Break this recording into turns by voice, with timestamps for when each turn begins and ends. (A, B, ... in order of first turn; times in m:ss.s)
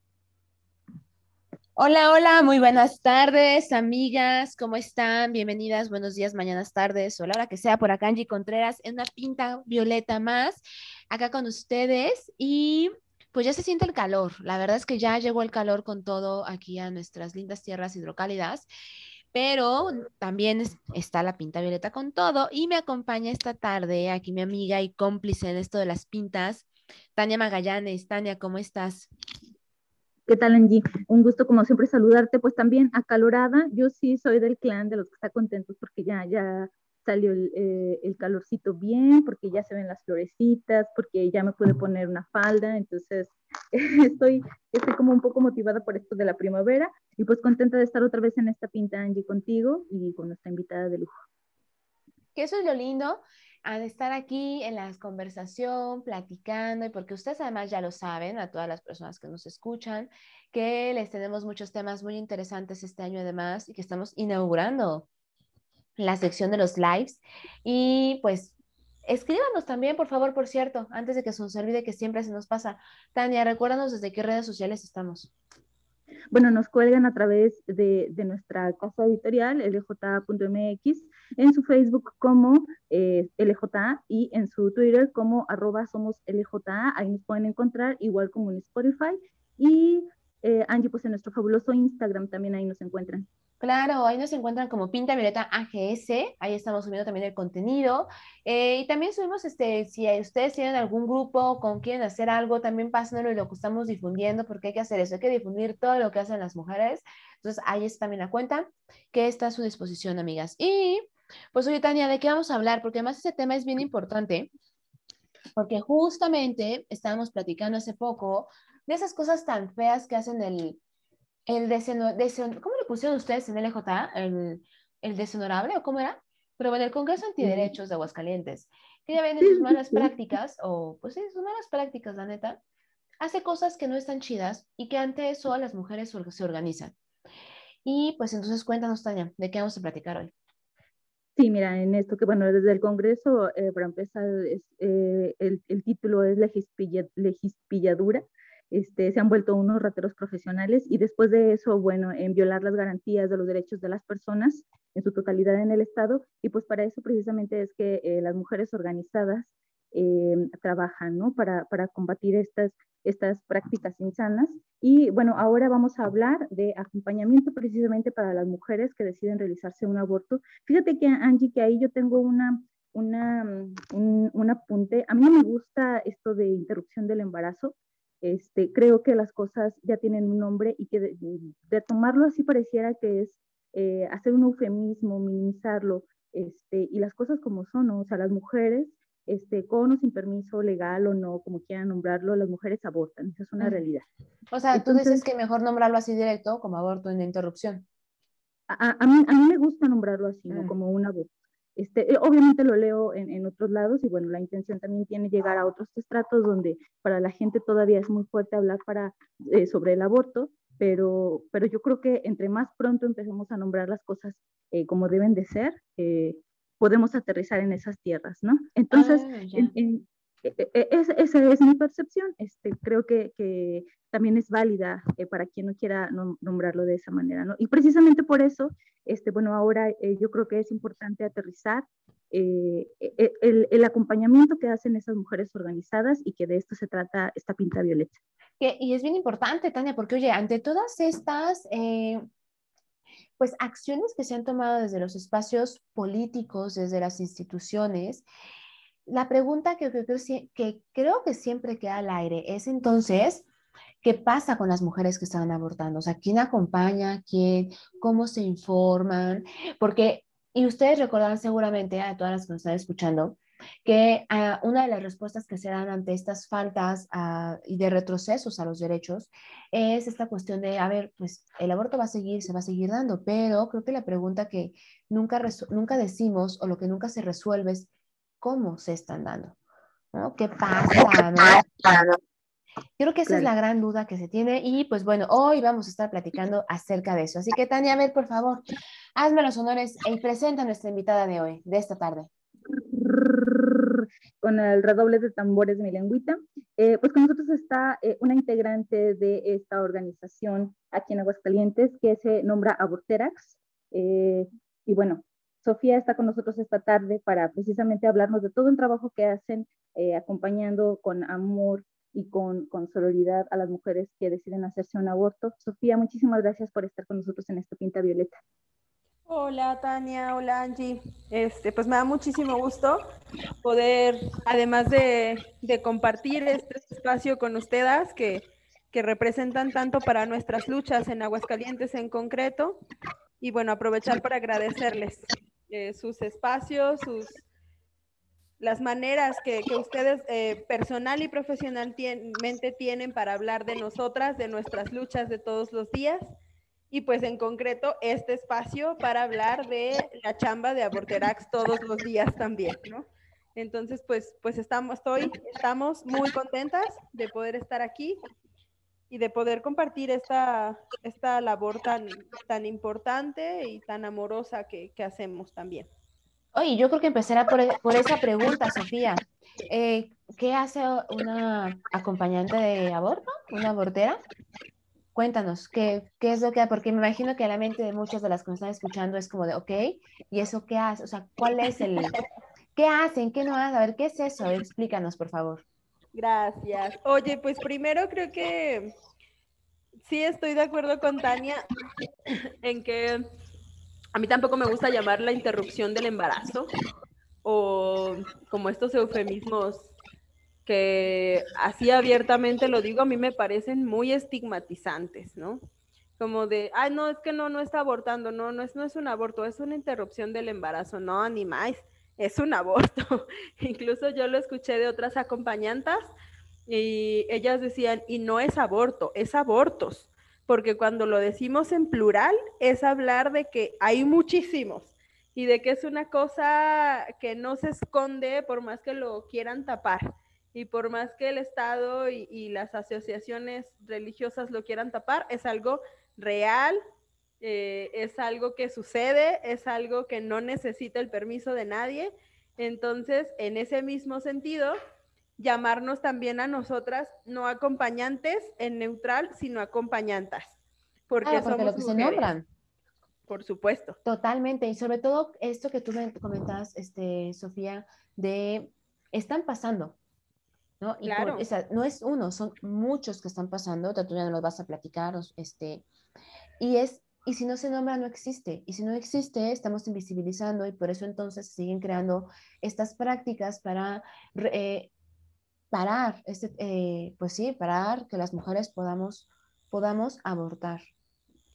0:01.8-0:18.7 A
0:19.3-0:29.1 A
0:30.3-0:51.1 B
0:52.4-1:05.1 A
1:06.0-1:08.5 A
1:09.0-1:15.3 A
1:16.3-1:33.3 B
1:33.6-1:54.5 A
1:55.6-2:00.8 A
2:01.5-2:12.6 A
2:07.4-2:07.7 B
2:09.4-2:10.1 B
2:13.2-2:16.9 A
2:17.8-2:20.3 A
2:21.4-3:14.0 B
3:14.5-3:17.8 A
3:14.7-3:15.2 B
3:18.7-3:58.2 B
3:38.9-3:39.8 A
3:58.6-4:02.2 A
4:03.4-4:08.2 A
4:09.1-4:13.4 A
4:14.0-4:37.9 A
4:38.4-4:39.6 A
4:40.1-4:41.6 A
4:43.0-4:48.6 A
4:49.2-4:52.3 A
4:52.7-5:18.4 B
5:19.3-5:23.0 C
5:23.6-5:32.8 C
5:33.4-5:37.4 C
5:38.6-5:46.3 C
5:46.9-5:58.2 C
5:59.1-6:05.9 C
6:06.5-6:14.2 A
6:15.2-6:22.2 A
6:22.8-6:25.6 A
6:26.2-6:28.9 C
6:30.0-6:31.6 C
6:32.6-6:33.2 C
6:34.1-6:36.7 C
6:37.4-6:39.9 C
6:40.7-6:45.6 C
6:46.2-6:56.1 C
6:56.7-7:16.8 C
7:17.4-7:24.8 C
7:25.4-7:30.6 C
7:31.1-7:32.3 C
7:31.2-7:32.5 A
7:33.3-7:34.0 C
7:34.0-7:40.0 A
7:40.8-7:45.8 A
7:41.0-7:41.5 C
7:46.6-7:54.9 A
7:55.7-8:00.9 A